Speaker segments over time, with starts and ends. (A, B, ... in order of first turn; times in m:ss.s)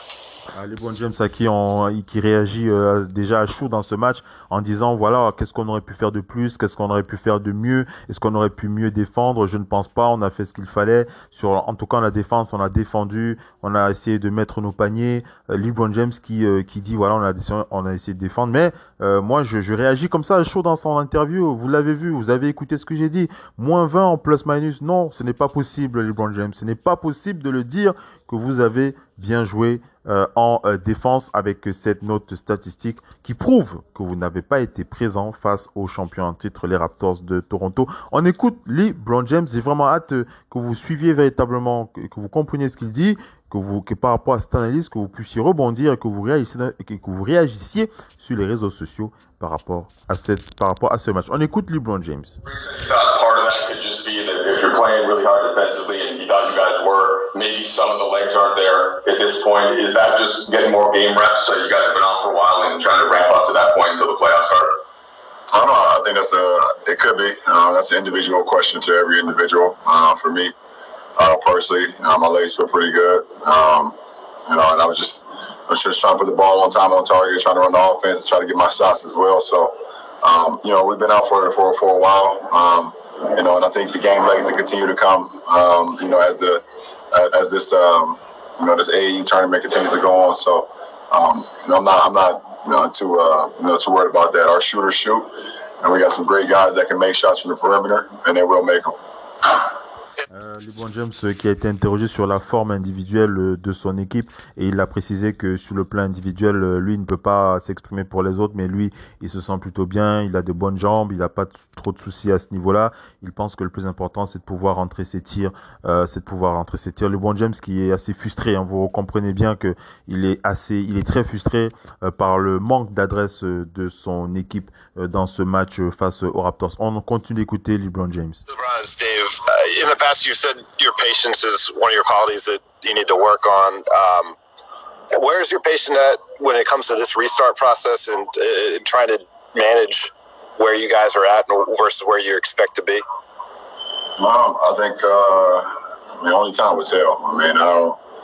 0:00.6-0:52.4 A
0:52.4-1:04.8 B
1:05.5-1:10.5 C
1:11.2-1:39.0 C
1:40.3-2:08.4 A
2:08.5-2:14.4 D
2:15.1-2:23.0 D
2:24.2-2:28.0 C